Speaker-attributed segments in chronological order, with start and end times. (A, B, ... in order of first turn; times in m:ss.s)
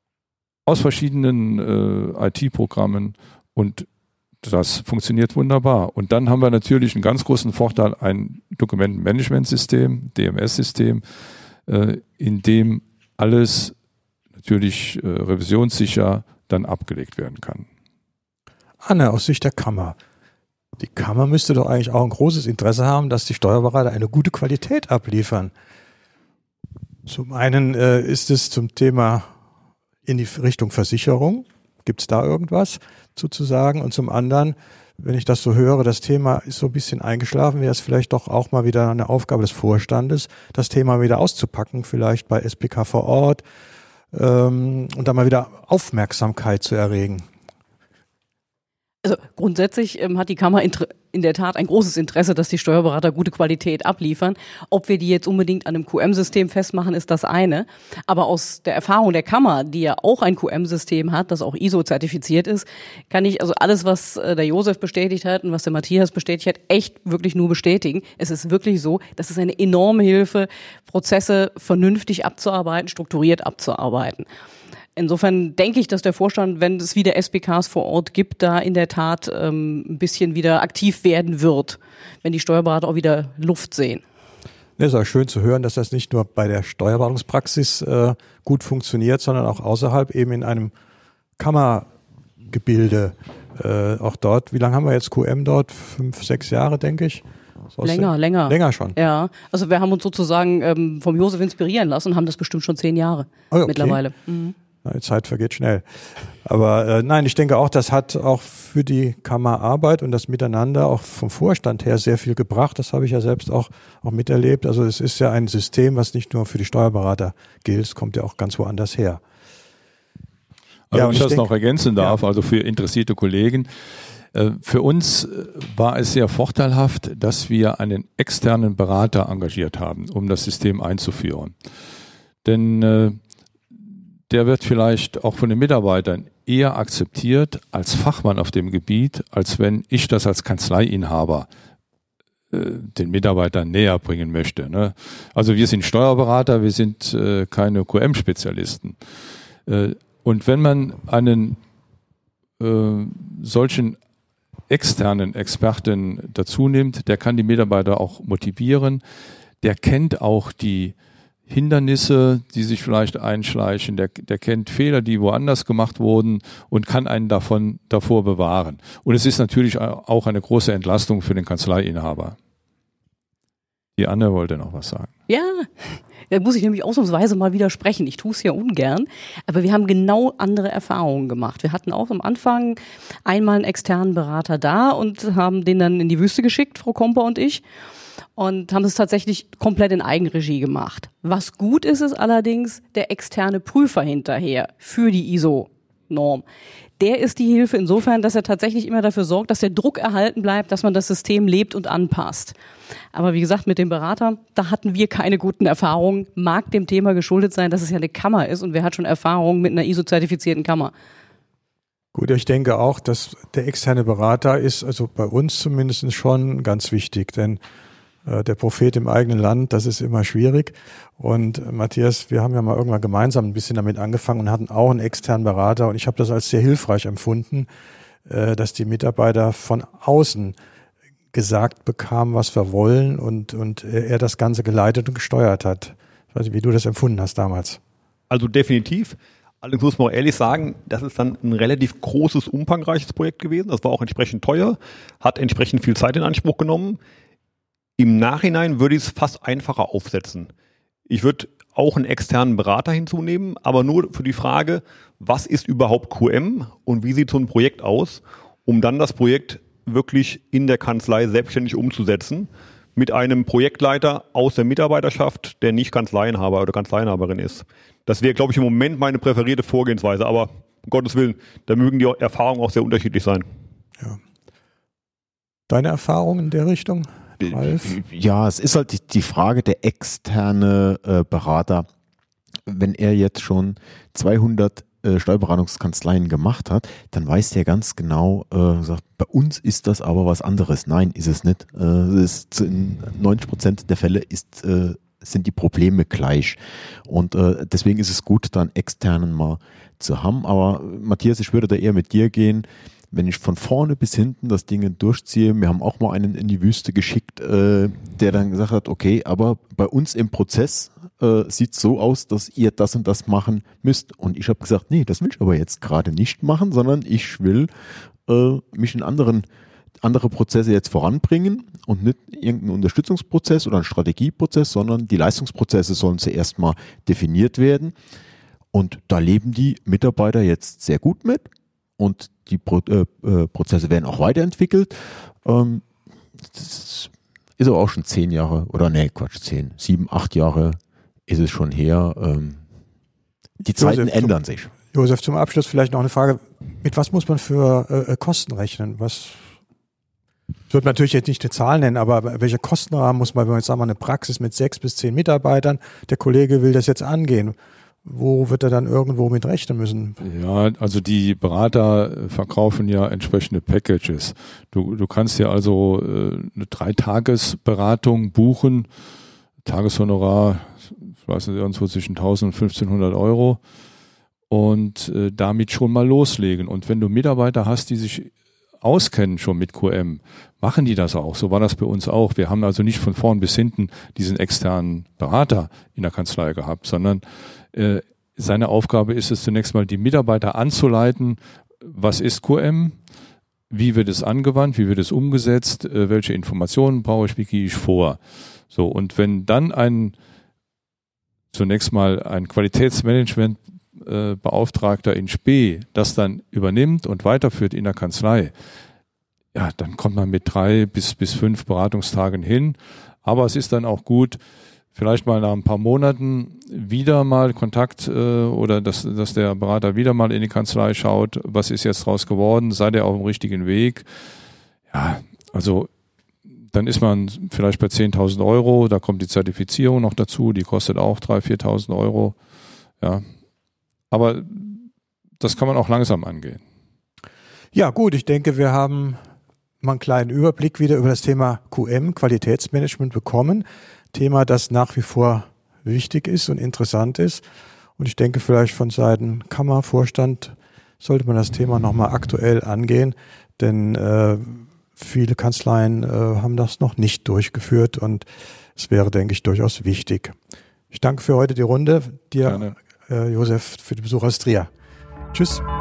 0:00.7-0:03.9 A
0:04.4-0:11.0 A
0:11.7-0:13.8 A
0:14.4-0:17.7 A
0:18.8-0:20.0 B
0:20.8-0:25.5 B
0:27.1-0:29.3 B
0:30.1-0:43.4 B
0:44.1-0:47.2 B
0:49.0-1:14.3 C
1:15.0-1:24.0 C
1:24.8-1:30.7 B
1:31.4-1:31.9 B
1:32.5-1:39.0 B
1:37.8-1:44.5 C
1:43.5-1:44.0 B
1:44.8-1:45.8 B
1:46.4-1:59.2 B
2:00.9-2:03.7 A
2:00.9-2:02.2 B
2:04.3-2:11.5 A
2:12.4-2:13.2 A
2:14.3-2:21.5 A
2:22.5-2:29.0 A
2:29.7-2:31.6 A
2:32.6-2:34.0 A
2:34.7-2:39.0 A
2:39.6-2:41.0 A
2:41.5-2:52.4 A
2:54.0-2:55.1 A
2:55.3-3:07.6 C
3:08.4-3:16.4 C
3:17.0-3:22.6 C
3:23.1-3:30.9 C
3:32.1-3:37.6 B
3:38.2-3:47.7 B
3:48.3-3:50.6 B
3:51.3-3:57.8 B
3:58.3-4:07.0 D
4:08.0-4:10.5 D
4:11.1-4:33.4 D
4:35.7-4:38.0 B
4:37.7-4:41.9 E
4:42.7-5:17.7 E
5:18.3-5:19.5 E
5:20.0-5:28.0 E
5:28.7-5:35.8 E
5:36.5-5:42.6 E
5:43.6-5:44.7 E
5:43.8-5:44.4 B
5:44.9-5:49.4 B
5:50.7-6:00.2 B
6:00.2-6:08.9 A
6:09.6-6:13.6 A
6:14.5-6:33.0 A
6:33.7-6:38.2 A
6:38.7-6:40.2 A
6:41.5-6:48.5 A
6:49.5-6:54.4 A
6:54.9-7:04.1 A
7:04.9-7:05.9 A
7:06.7-7:12.4 A
7:14.1-7:14.9 A
7:15.4-7:16.6 A
7:17.7-7:19.2 B
7:19.8-7:27.4 B
7:28.0-7:40.4 B
7:40.9-7:44.7 B
7:42.4-7:42.7 A
7:45.3-7:45.6 B